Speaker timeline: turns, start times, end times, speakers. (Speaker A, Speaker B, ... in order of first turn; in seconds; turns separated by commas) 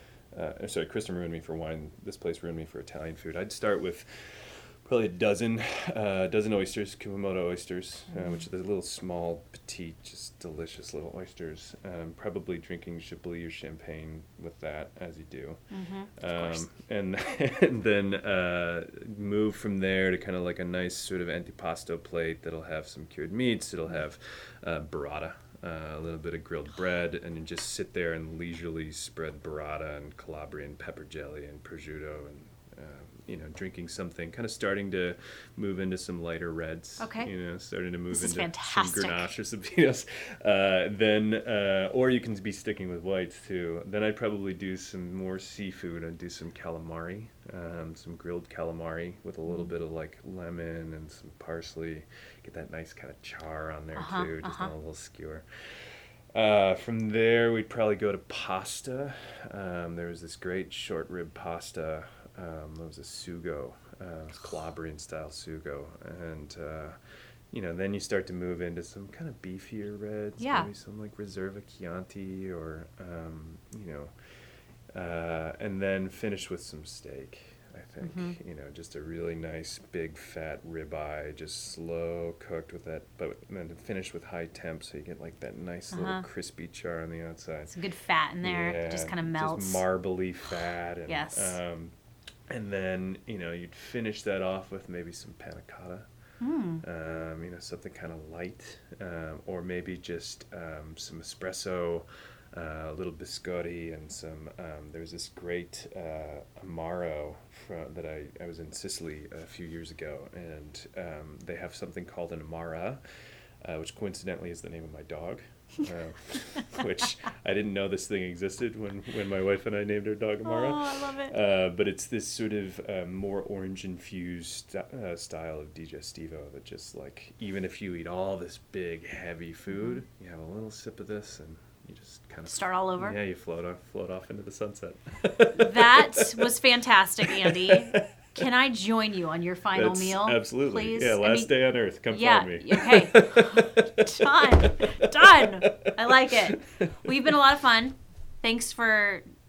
Speaker A: 0.3-15.6, Speaker B: 15.7-16.6, Speaker A: 16.2-66.9, Speaker B: 37.0-37.3, Speaker B: 38.1-39.3, Speaker B: 54.0-54.7, Speaker A: 67.5-74.1, Speaker B: 70.4-70.7, Speaker A: 74.9-87.7, Speaker B: 78.0-78.3, Speaker B: 85.9-86.2, Speaker B: 87.7-89.8, Speaker A: 88.4-91.9, Speaker B: 91.1-91.6, Speaker A: 92.5-96.1, Speaker B: 96.4-96.8, Speaker A: 96.8-113.0, Speaker A: 113.6-136.5, Speaker B: 120.4-121.3, Speaker B: 129.7-130.0, Speaker B: 132.4-133.2, Speaker B: 135.5-141.5, Speaker A: 137.2-138.1, Speaker A: 139.7-147.3, Speaker B: 142.1-149.2